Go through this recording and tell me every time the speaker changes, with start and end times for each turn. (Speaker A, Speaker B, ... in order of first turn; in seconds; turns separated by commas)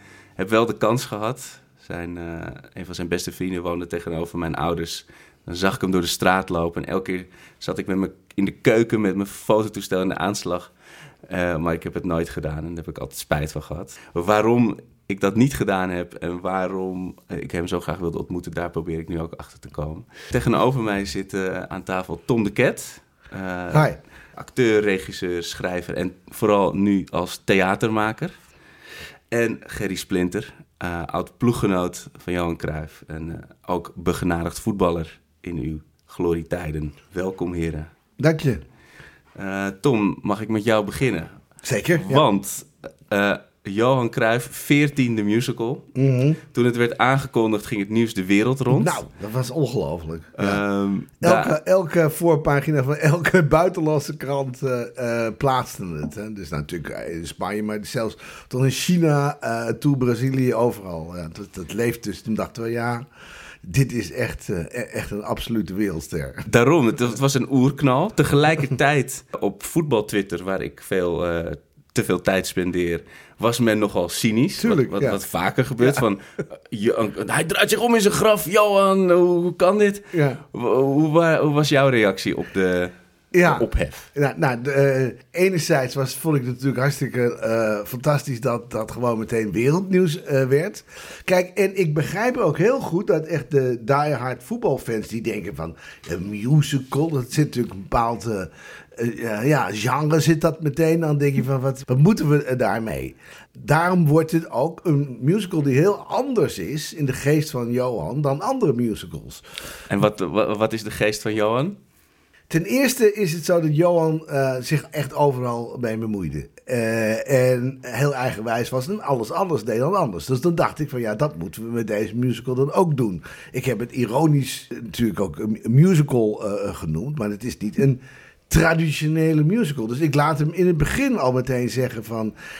Speaker A: 0.4-10.7, Speaker A: 11.3-28.4, Speaker B: 23.7-24.0, Speaker A: 29.3-37.9, Speaker B: 38.2-38.6, Speaker A: 39.4-41.4, Speaker B: 41.6-42.2, Speaker A: 41.9-45.9, Speaker B: 46.0-46.4, Speaker A: 46.5-49.0, Speaker B: 48.7-50.6, Speaker A: 50.4-51.5, Speaker B: 51.2-63.0, Speaker B: 63.6-66.5, Speaker A: 66.5-84.1, Speaker B: 74.6-75.2, Speaker B: 80.1-80.4, Speaker B: 83.3-109.4, Speaker A: 109.9-111.8, Speaker B: 112.5-132.3